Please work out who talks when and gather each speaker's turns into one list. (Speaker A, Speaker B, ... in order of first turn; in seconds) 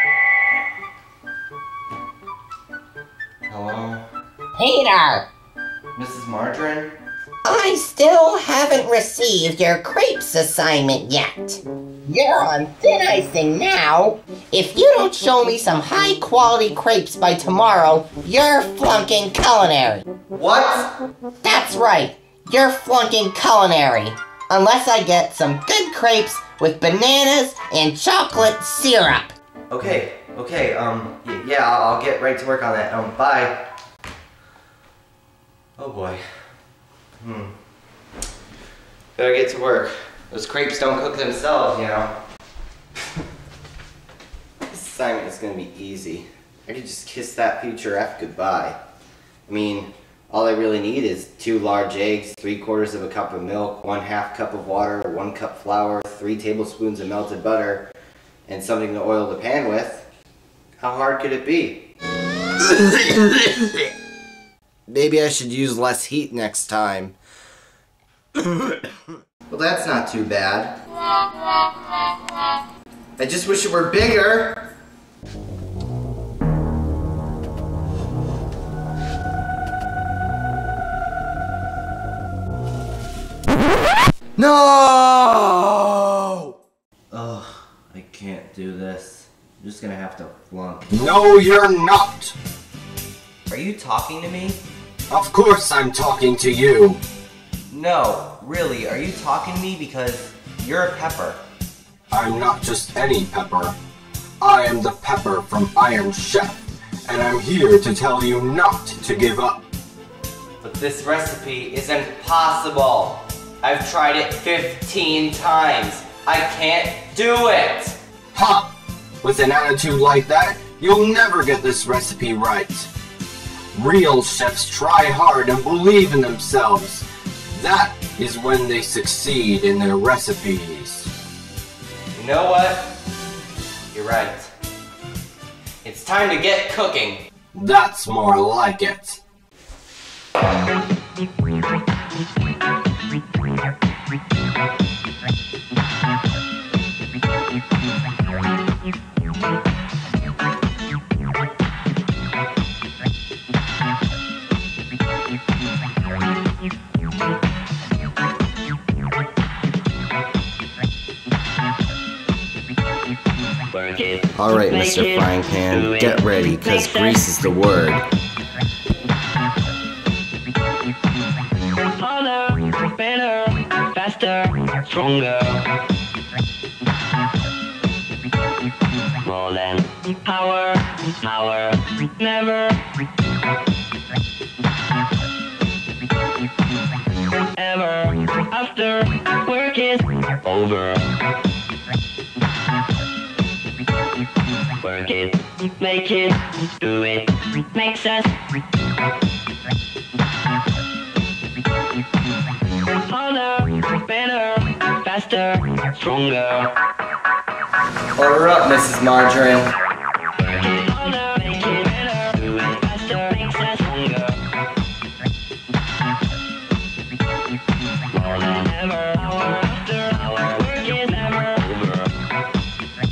Speaker A: 3.5-4.0, 6.0-7.0, 20.3-20.9, 29.7-33.7, 35.8-36.2, 37.2-37.5, 39.2-42.2, 44.7-48.8, 49.5-57.9, 58.5-60.0, 60.8-61.9, 62.6-63.7, 64.9-67.2, 68.3-68.9, 69.5-70.8, 73.2-74.7, 84.4-86.6, 87.1-91.1, 93.5-94.6, 97.7-101.4, 110.6-118.0, 132.2-132.9, 133.9-134.5, 135.8-137.2, 164.3-168.1, 208.2-209.7
Speaker B: 4.6-5.3, 7.5-20.1, 21.4-29.3
Speaker C: 90.9-92.3, 95.1-97.0, 102.1-103.8, 104.4-109.7, 118.3-122.9, 123.7-131.1, 137.5-139.2
Speaker D: 163.7-167.2, 172.0-175.7, 179.2-182.8, 187.6-191.1, 194.8-198.3, 203.1-206.7, 210.4-214.4, 218.1-222.1